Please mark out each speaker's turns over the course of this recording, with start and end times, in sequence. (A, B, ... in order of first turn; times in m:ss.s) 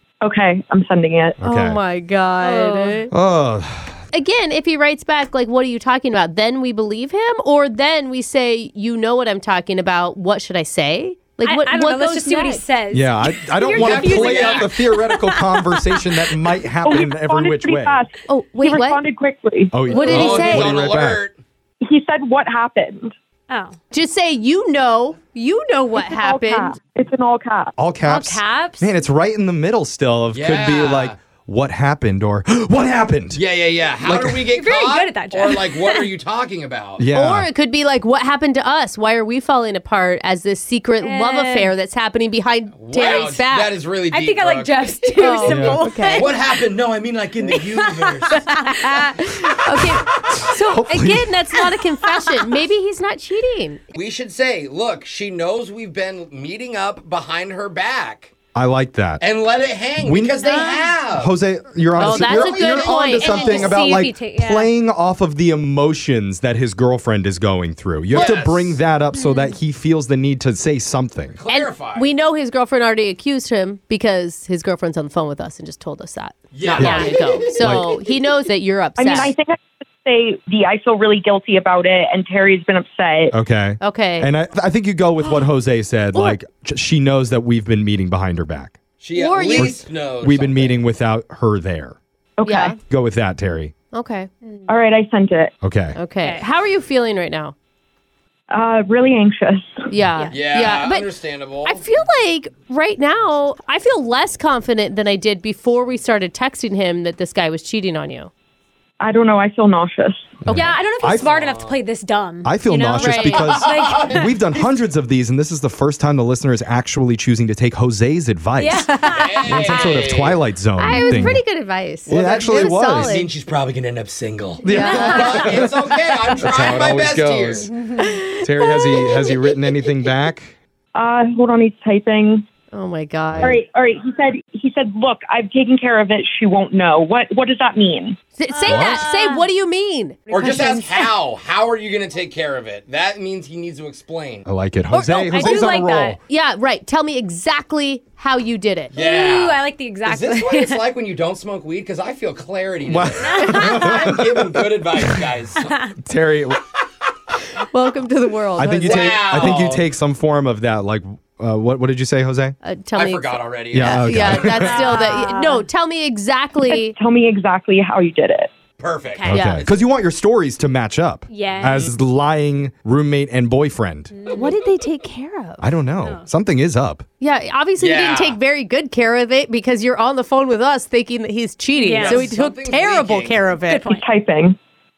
0:00.2-0:01.4 A
0:01.4-0:01.8 B
0:01.4-0:03.1 C
0:02.4-0:03.0 D
0:03.1-0:04.0 B
0:04.1-0:12.6 C
0:11.4-0:16.2 D
0:12.9-0:18.0 B
0:13.7-0:14.8 E
0:16.8-0:20.6 A
0:18.3-0:19.0 C
0:19.7-0:21.2 B
0:19.8-0:21.4 E
0:19.9-0:20.7 C
0:21.8-0:23.1 A
0:23.5-0:23.8 D
0:23.9-0:26.8 C
0:26.0-0:27.8 A
0:27.8-0:33.4 B
0:28.0-0:29.0 D
0:30.3-0:31.2 E
0:33.3-0:37.1 E
0:34.0-0:34.5 B
0:34.6-0:36.1 D
0:37.0-0:37.5 B
0:37.1-0:43.7 C
0:41.0-0:41.7 D
0:42.8-0:45.4 E
0:44.1-0:46.4 D
0:45.2-0:46.3 C
0:45.4-0:45.8 B
0:46.1-0:49.0 E
0:47.5-0:49.1 D
0:48.3-0:53.8 C
0:50.5-0:51.3 B
0:53.9-0:58.3 E
0:58.5-0:59.2 B
0:59.2-1:01.3 E
1:00.0-1:00.4 B
1:00.4-1:00.9 D
1:01.1-1:11.4 B
1:02.0-1:03.7 C
1:02.0-1:03.8 E
1:03.1-1:04.7 D
1:08.1-1:08.8 E
1:09.1-1:09.5 D
1:11.4-1:12.1 E
1:11.5-1:19.3 C
1:16.5-1:17.8 E
1:16.8-1:17.9 B
1:19.0-1:23.4 A
1:23.3-1:28.8 B
1:23.8-1:24.3 C
1:29.0-1:30.9 E
1:29.2-1:29.8 C
1:29.5-1:32.0 B
1:32.4-1:32.8 A
1:32.5-1:32.8 C
1:32.9-1:33.7 B
1:33.9-1:34.3 C
1:34.7-1:35.5 A
1:35.6-1:36.0 B
1:36.0-1:37.6 C
1:36.2-1:36.5 D
1:38.5-1:39.8 A
1:39.9-1:41.1 C
1:40.2-1:40.4 D
1:40.3-1:41.8 E
1:41.6-1:48.3 C
1:49.0-1:50.4 A
1:50.4-1:51.3 B
1:50.5-1:54.3 D
1:51.1-1:51.8 E
1:52.4-1:58.9 B
1:53.0-1:53.5 C
1:53.4-1:54.7 E
1:58.6-1:59.9 D
1:59.0-2:00.5 E
1:59.4-2:01.4 B
2:00.8-2:03.3 C
2:00.9-2:01.3 D
2:02.1-2:07.7 E
2:02.1-2:03.1 B
2:04.6-2:05.7 B
2:04.6-2:06.4 C
2:06.4-2:07.7 B
2:07.6-2:08.2 D
2:08.0-2:09.3 C
2:08.4-2:10.6 B
2:11.0-2:12.4 A
2:12.7-2:13.6 C
2:13.3-2:13.6 B
2:13.4-2:18.2 A
2:18.4-2:20.2 C
2:18.5-2:19.5 D
2:18.7-2:19.0 B
2:20.3-2:21.1 D
2:20.3-2:24.5 E
2:24.5-2:26.2 B
2:24.9-2:26.2 D
2:26.3-2:29.0 C
2:28.9-2:35.8 E
2:29.0-2:30.8 D
2:32.9-2:35.3 B
2:33.2-2:34.0 D
2:35.6-2:35.9 D
2:36.0-2:36.6 B
2:37.7-2:39.5 C
2:38.6-2:42.6 B
2:38.8-2:39.9 E
2:42.6-2:46.9 C
2:42.9-2:44.6 E
2:43.7-2:45.0 B
2:44.5-2:45.7 D
2:46.7-2:48.5 A
2:48.8-2:49.7 E
2:49.1-2:49.4 D
2:49.3-2:49.6 C
2:49.3-2:54.1 B
2:51.3-2:51.9 D
2:51.6-2:51.9 E
2:54.1-2:54.5 D
2:54.3-2:55.7 C
2:55.6-2:57.1 B
2:56.0-2:56.3 D
2:57.2-3:03.8 C
2:57.8-2:58.4 E
3:01.8-3:02.2 D
3:02.0-3:03.6 E
3:03.7-3:04.1 D
3:03.9-3:04.6 A